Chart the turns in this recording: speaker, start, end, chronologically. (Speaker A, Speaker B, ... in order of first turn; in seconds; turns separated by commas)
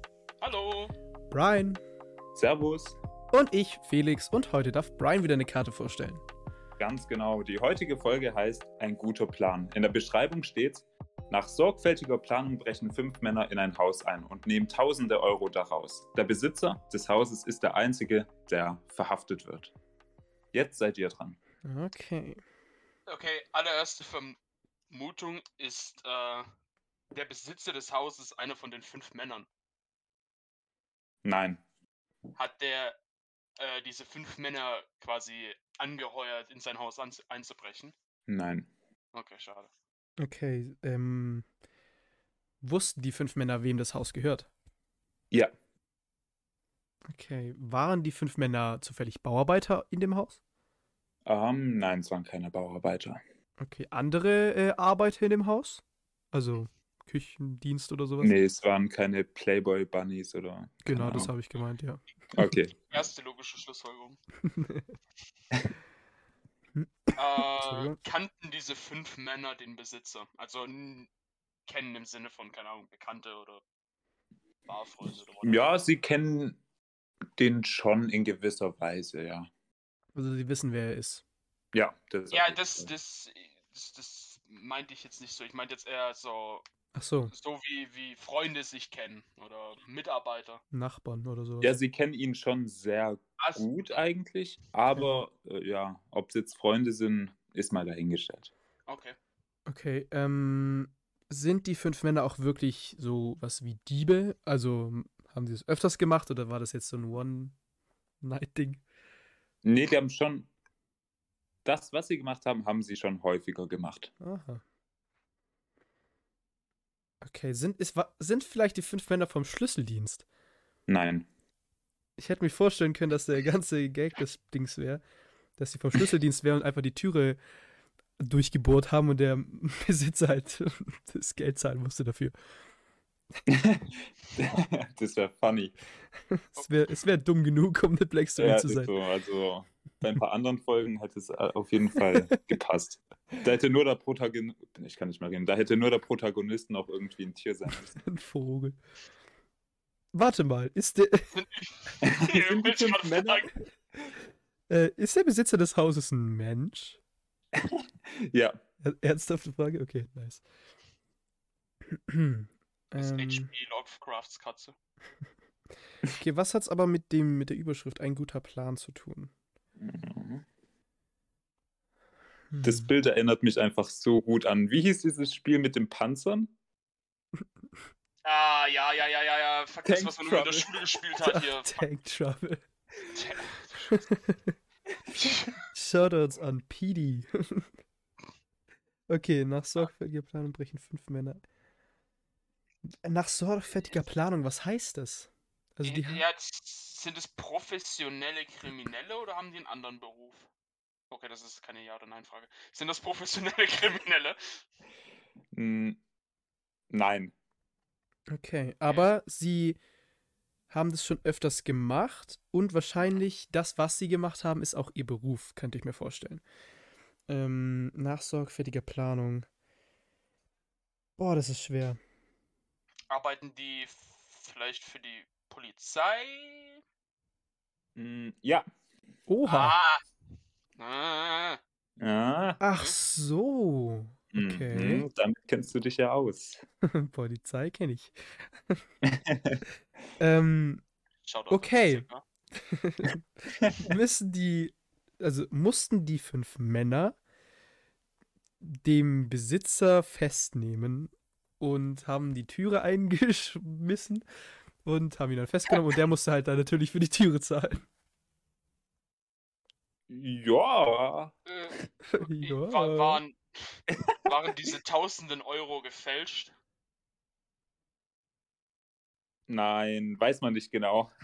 Speaker A: 0.4-0.9, Speaker B: 1.3-1.8, Speaker C: 2.4-3.0, Speaker B: 3.3-6.2, Speaker C: 6.8-19.7, Speaker C: 20.5-21.4, Speaker B: 21.7-22.4, Speaker A: 23.1-24.4, Speaker A: 24.9-26.5, Speaker A: 27.1-29.5, Speaker C: 31.2-31.6, Speaker A: 32.4-33.0, Speaker A: 33.6-37.9, Speaker C: 38.3-38.7, Speaker A: 39.1-39.7, Speaker B: 40.2-41.5, Speaker B: 42.6-44.5, Speaker B: 47.1-50.4, Speaker C: 51.3-53.2, Speaker B: 53.6-58.4, Speaker C: 58.2-61.3, Speaker B: 60.8-62.4, Speaker C: 62.3-62.8, Speaker A: 62.9-64.2, Speaker B: 64.4-64.9, Speaker B: 66.8-68.0, Speaker A: 67.2-71.1, Speaker A: 71.7-73.6, Speaker A: 74.7-75.7, Speaker C: 75.4-76.6, Speaker C: 77.4-79.5, Speaker B: 80.2-81.2, Speaker C: 81.7-82.9, Speaker A: 82.3-86.6, Speaker B: 87.0-87.3, Speaker A: 87.3-90.6, Speaker B: 90.7-91.8, Speaker C: 91.6-98.5, Speaker A: 93.4-93.7, Speaker A: 98.9-99.2, Speaker B: 99.7-107.5, Speaker B: 108.2-108.8, Speaker C: 109.6-110.5, Speaker C: 111.7-114.1, Speaker B: 114.2-114.6, Speaker B: 117.2-120.3, Speaker C: 120.9-121.3, Speaker B: 122.2-125.0, Speaker B: 125.6-127.4, Speaker B: 128.2-132.3, Speaker C: 133.5-135.7, Speaker B: 136.4-139.0, Speaker C: 138.4-148.0, Speaker B: 147.7-148.8, Speaker B: 150.1-151.3, Speaker A: 151.3-153.5, Speaker C: 152.1-153.5, Speaker B: 154.7-157.0, Speaker C: 158.1-158.6, Speaker B: 158.8-160.4, Speaker B: 161.9-163.5, Speaker A: 163.0-164.8, Speaker B: 166.1-169.3, Speaker C: 169.8-170.4, Speaker B: 172.5-172.9, Speaker C: 172.6-176.5, Speaker A: 178.2-181.8, Speaker C: 179.8-180.8, Speaker B: 181.2-182.6, Speaker A: 183.1-184.0, Speaker B: 183.9-184.5, Speaker A: 185.2-185.5, Speaker B: 185.7-187.7, Speaker B: 189.1-191.4, Speaker B: 193.0-196.3, Speaker A: 195.8-200.5, Speaker A: 201.1-204.6, Speaker C: 205.5-206.0, Speaker C: 206.9-207.3, Speaker B: 208.3-209.8, Speaker B: 210.7-216.4, Speaker B: 217.3-219.5, Speaker B: 221.2-222.0, Speaker A: 223.1-226.8, Speaker C: 228.0-228.7, Speaker B: 229.3-229.8, Speaker A: 229.5-230.0, Speaker A: 230.8-231.6, Speaker C: 232.0-232.6, Speaker B: 232.6-235.1, Speaker C: 234.3-236.6, Speaker B: 236.9-238.1, Speaker C: 239.1-239.6, Speaker B: 240.2-240.8, Speaker A: 241.2-242.2, Speaker B: 241.5-247.2, Speaker B: 248.6-254.2, Speaker B: 254.8-257.9, Speaker C: 260.1-261.3, Speaker A: 261.5-266.5, Speaker B: 262.1-263.2, Speaker C: 269.5-271.1